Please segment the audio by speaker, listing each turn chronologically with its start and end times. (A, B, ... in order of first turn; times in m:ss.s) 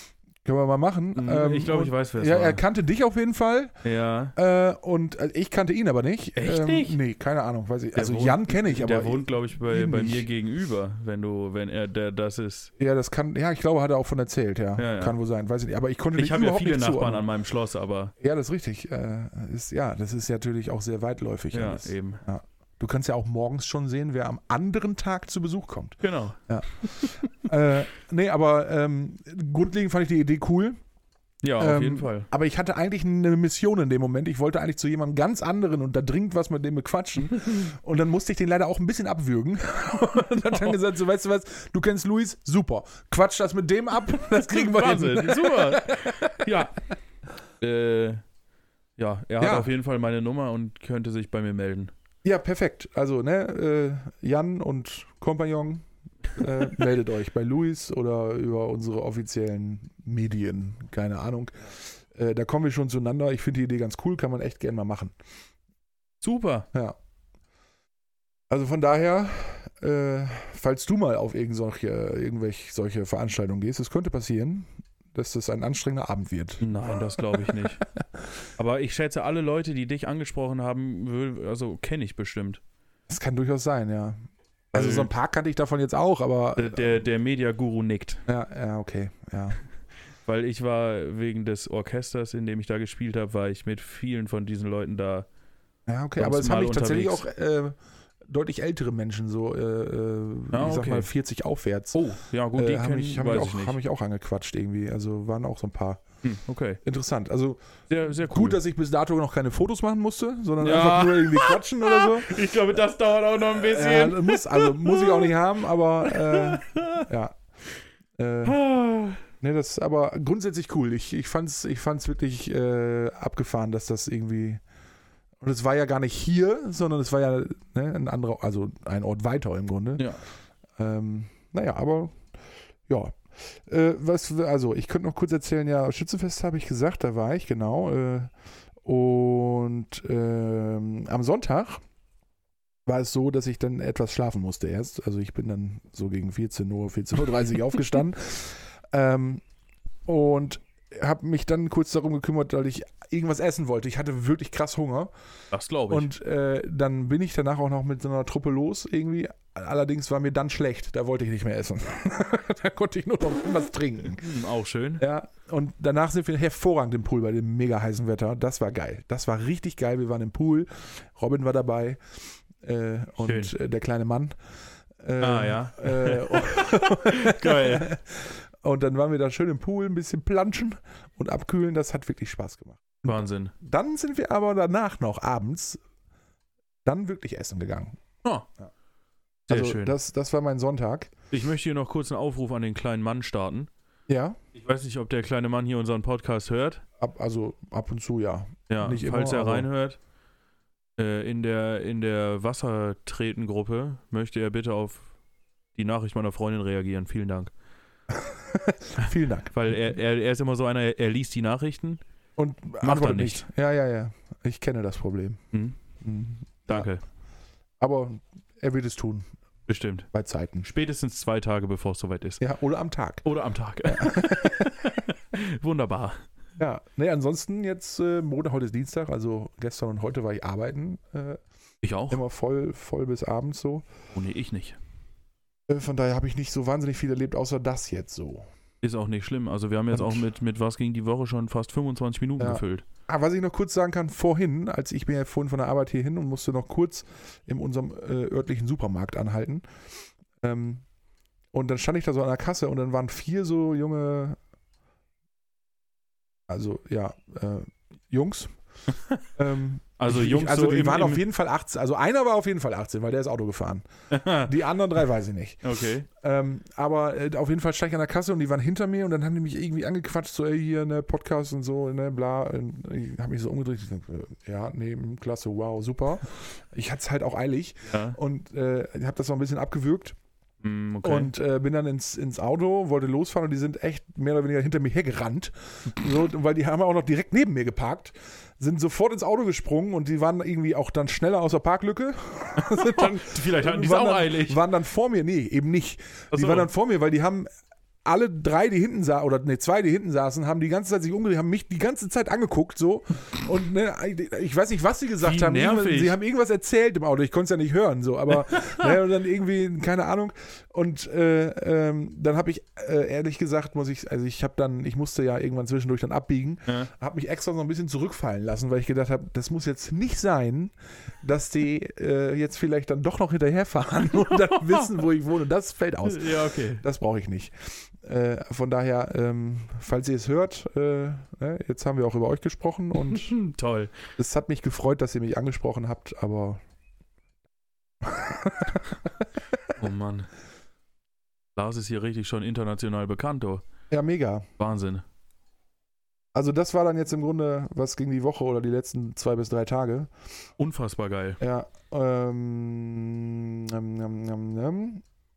0:00.4-0:03.7 A
0:01.2-0:02.6 B
0:03.8-0:04.3 B
0:04.4-0:10.3 A
0:06.4-0:07.0 B
0:08.0-0:12.7 B
0:12.8-0:17.2 A
0:14.8-0:15.2 B
0:16.2-0:18.1 B
0:18.2-0:30.8 A
0:21.5-0:22.2 B
0:26.0-0:27.0 B
0:31.4-0:32.3 B
0:31.6-0:46.5 A
0:40.5-0:40.8 B
0:44.3-0:46.7 B
0:47.6-0:48.2 B
0:49.0-0:51.9 B
0:49.4-0:49.7 A
0:52.2-1:05.1 A
1:06.2-1:06.7 B
1:08.5-1:16.7 A
1:16.6-1:17.8 B
1:17.2-1:17.5 A
1:18.6-1:22.6 B
1:23.1-1:27.0 A
1:24.7-1:25.1 B
1:26.6-1:28.2 B
1:28.3-1:29.6 A
1:30.3-1:35.3 B
1:35.9-1:37.8 A
1:36.2-1:37.2 B
1:38.3-1:42.0 A
1:40.5-1:41.1 B
1:41.9-1:43.8 B
1:42.6-1:46.0 A
1:46.2-1:46.8 B
1:46.8-1:52.4 A
1:47.9-1:48.6 B
1:50.6-1:55.3 B
1:53.6-1:57.4 A
1:56.0-1:57.1 B
1:58.2-1:58.6 A
1:58.4-1:59.2 B
1:59.4-2:04.6 A
2:05.4-2:10.1 A
2:10.8-2:12.2 A
2:12.9-2:18.3 A
2:18.8-2:21.8 A
2:22.9-2:29.4 A
2:30.1-2:35.1 A
2:35.5-2:36.1 B
2:35.9-2:44.3 A
2:44.2-2:45.0 B
2:45.0-2:52.0 A
2:52.6-2:54.3 A
2:53.2-2:53.5 B
2:55.0-3:05.8 A
2:55.2-2:57.9 B
3:03.1-3:03.5 B
3:06.8-3:08.0 A
3:09.5-3:10.0 B
3:09.5-3:11.1 A
3:11.3-3:13.7 B
3:14.1-3:14.4 A
3:14.5-3:16.8 B
3:17.0-3:19.7 A
3:18.7-3:20.0 B
3:21.0-3:25.1 B
3:25.8-3:27.5 B
3:28.1-3:29.6 A
3:29.5-3:32.0 B
3:32.4-3:35.4 A
3:32.8-3:33.4 B
3:35.5-3:35.8 B
3:36.0-3:36.9 A
3:36.7-3:37.0 B
3:37.8-3:39.3 A
3:39.7-3:40.1 B
3:40.1-3:40.7 A
3:40.6-3:42.4 B
3:42.4-3:43.2 A
3:43.2-3:46.2 B
3:43.8-3:45.1 A
3:46.6-3:51.4 A
3:51.8-3:52.2 B
3:52.1-3:53.9 A
3:54.1-3:54.8 B
3:55.7-3:58.5 A
3:58.8-4:02.8 B
3:59.9-4:00.2 A
4:02.4-4:09.6 A
4:10.4-4:10.8 A
4:11.5-4:14.4 A
4:16.5-4:18.5 A
4:18.9-4:19.2 B
4:19.4-4:25.6 A
4:20.0-4:21.2 B
4:24.1-4:24.5 B
4:25.6-4:26.1 B
4:26.2-4:40.2 A
4:37.9-4:38.2 B
4:40.6-4:41.3 B
4:41.0-4:57.5 A
4:52.6-4:54.6 B
4:56.3-4:56.7 B
4:58.0-5:33.4 A
5:05.2-5:06.2 B
5:24.3-5:24.9 B
5:26.0-5:26.8 B
5:33.0-5:34.0 B
5:34.2-5:36.6 A
5:38.0-5:38.9 A
5:39.8-5:40.3 B
5:41.6-5:43.6 B
5:43.9-5:44.5 A
5:44.6-5:45.0 B
5:46.4-5:50.1 A
5:50.6-5:51.4 B
5:51.4-5:55.0 A